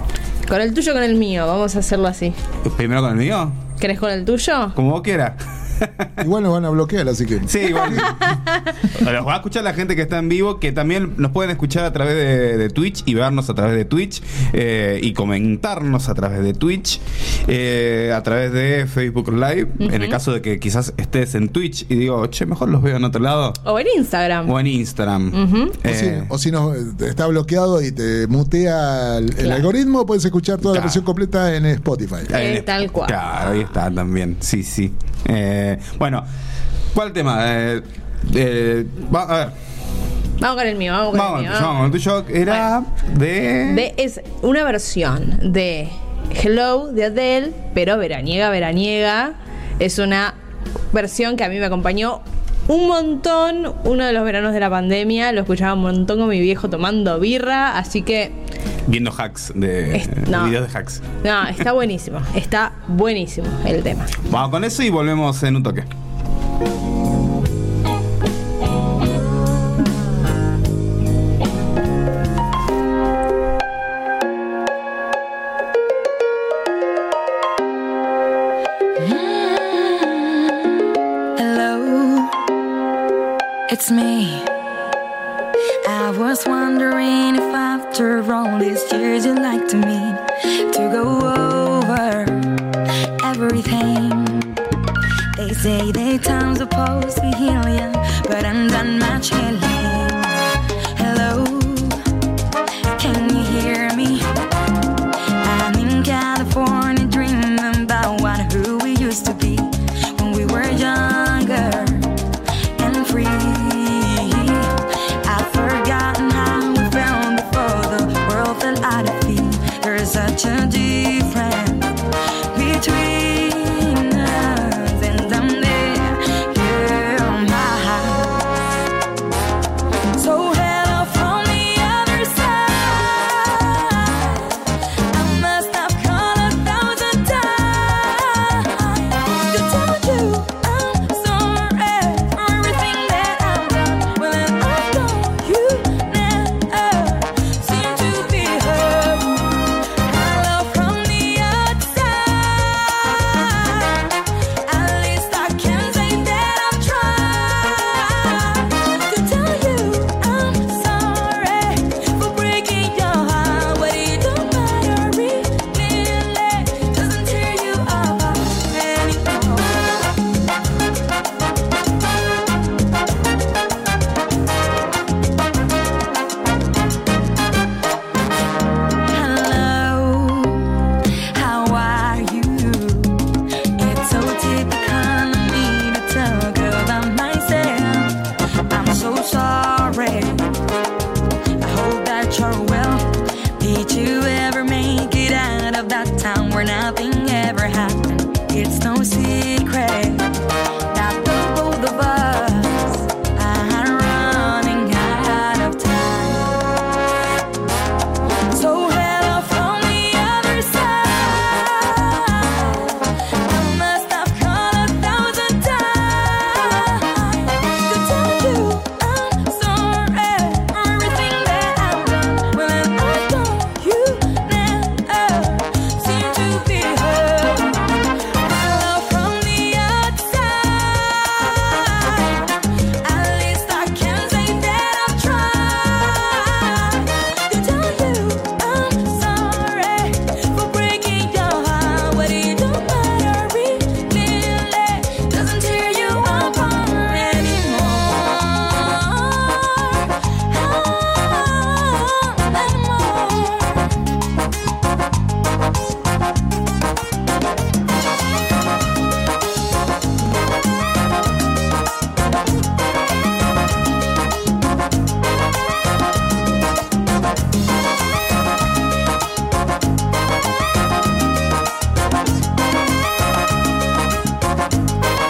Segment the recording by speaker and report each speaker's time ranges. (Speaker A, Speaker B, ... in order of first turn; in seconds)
Speaker A: 0.5-2.4, 3.8-4.8, 8.1-8.7, 19.8-20.2, 23.6-24.5, 25.3-25.8, 32.3-33.6, 40.4-41.8, 43.6-50.4, 50.9-58.3, 59.9-60.5, 61.2-64.1
Speaker B: 2.6-3.6, 4.7-6.1, 7.5-8.3, 8.8-23.6, 24.4-26.3, 30.7-31.0, 32.3-36.3, 36.9-39.5, 41.1-43.9, 58.9-61.0, 64.3-65.9
Speaker C: 6.2-8.1, 25.8-32.3
Speaker D: 79.0-80.8, 81.4-82.4, 83.7-84.5, 85.8-92.6, 93.2-94.5, 95.4-102.0, 103.0-104.2, 105.4-112.1, 112.8-128.5, 130.1-154.1, 154.7-170.1, 179.1-180.8, 181.3-183.2, 183.8-190.5, 191.6-200.3, 200.9-206.7, 208.5-253.8